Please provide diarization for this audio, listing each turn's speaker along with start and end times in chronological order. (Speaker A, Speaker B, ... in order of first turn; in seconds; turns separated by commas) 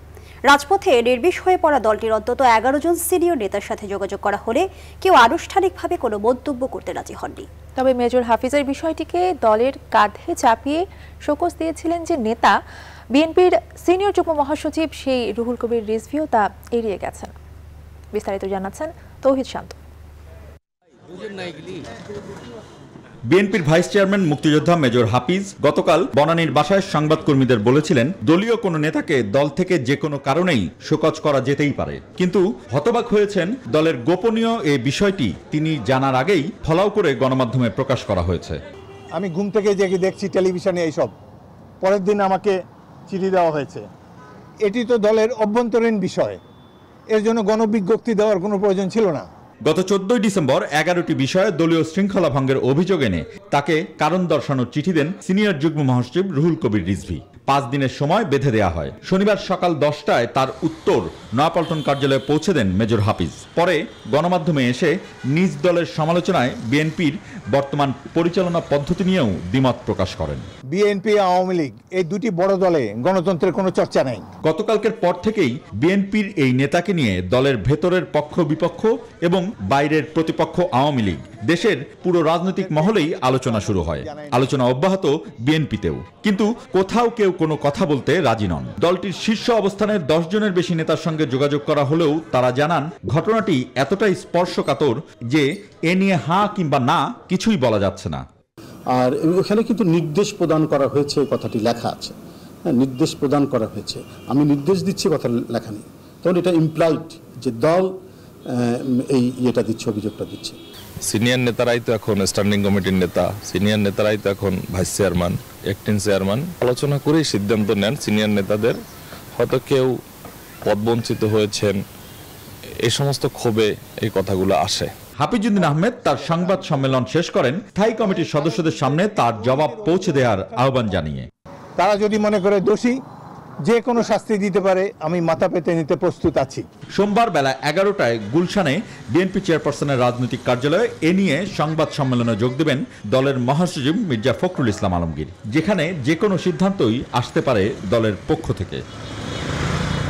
Speaker A: 0.5-7.5, Speaker B: 7.8-12.6, Speaker B: 13.1-17.3, Speaker B: 18.1-19.8, Speaker C: 23.3-38.6, Speaker D: 39.1-41.1, Speaker D: 41.8-42.5, Speaker D: 43.1-43.9, Speaker D: 44.6-46.4, Speaker D: 47.1-49.3, Speaker C: 49.6-70.5, Speaker D: 70.7-74.2, Speaker C: 74.4-98.2, Speaker D: 82.6-84.4, Speaker E: 98.9-102.2, Speaker E: 102.7-107.9, Speaker E: 108.5-110.6, Speaker F: 111.1-118.8, Speaker F: 119.4-119.9, Speaker F: 120.7-121.8, Speaker F: 122.8-124.9, Speaker C: 125.2-131.3, Speaker D: 128.0-131.0, Speaker D: 131.8-133.0, Speaker D: 133.6-136.6, Speaker C: 137.0-148.8